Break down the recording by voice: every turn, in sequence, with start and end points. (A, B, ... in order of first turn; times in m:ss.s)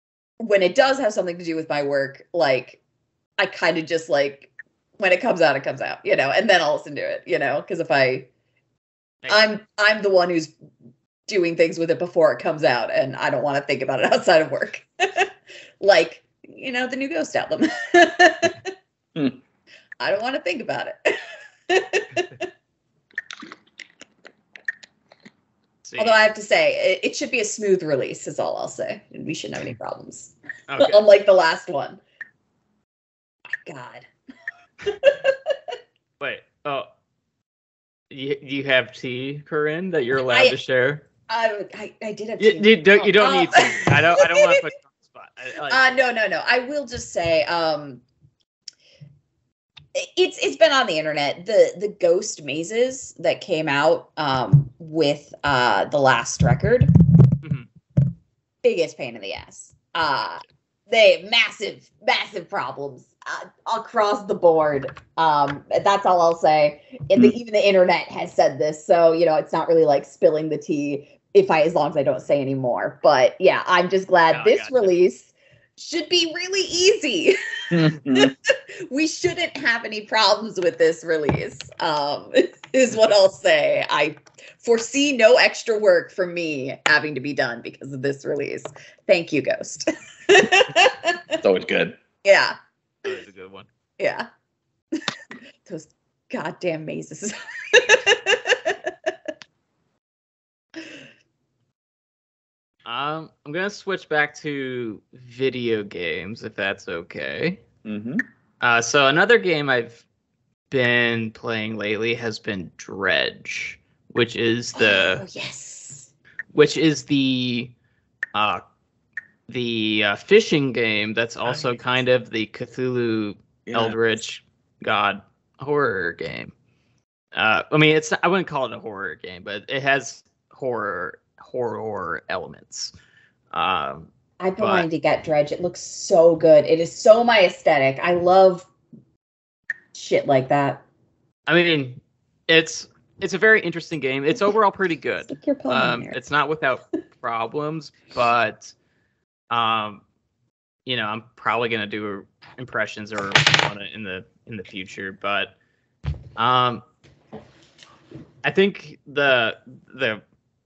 0:00.4-0:02.8 A
0:03.4-0:08.3 A
0:09.3-0:10.5 A
0:11.3-0:15.3 A
0:15.8-0:18.7 A
0:20.0-0:22.4 A
0:25.9-0:26.2 B
0:26.0-0:30.3 A
0:30.7-0:31.0 B
0:30.8-0:32.0 A
0:33.5-0:34.1 A
0:34.8-0:35.6 A
0:36.2-0:36.9 B
0:38.1-0:41.0 B
0:40.2-0:40.6 A
0:41.3-0:44.6 A
0:42.4-0:45.9 B
0:45.7-0:48.0 A
0:50.0-0:57.0 A
0:57.4-0:57.7 B
0:58.6-1:31.4 A
1:14.3-1:14.9 B
1:17.7-1:18.3 C
1:31.4-1:32.0 C
1:32.2-1:32.6 A
1:33.0-1:33.7 B
1:34.0-1:34.3 A
1:35.7-1:38.9 A
1:42.9-1:47.6 B
1:47.8-1:48.2 C
1:48.6-1:50.0 B
1:50.7-1:55.2 B
1:54.8-1:56.1 A
1:56.5-1:57.7 B
1:58.3-1:58.6 B
1:59.5-2:06.5 B
2:03.7-2:04.0 C
2:07.3-2:12.9 B
2:13.5-2:14.9 B
2:14.4-2:18.7 A
2:19.9-2:20.8 A
2:21.5-2:28.7 B
2:25.3-2:26.2 A
2:29.5-2:30.0 B
2:30.9-2:35.5 B
2:36.4-2:36.8 B
2:38.4-2:40.2 B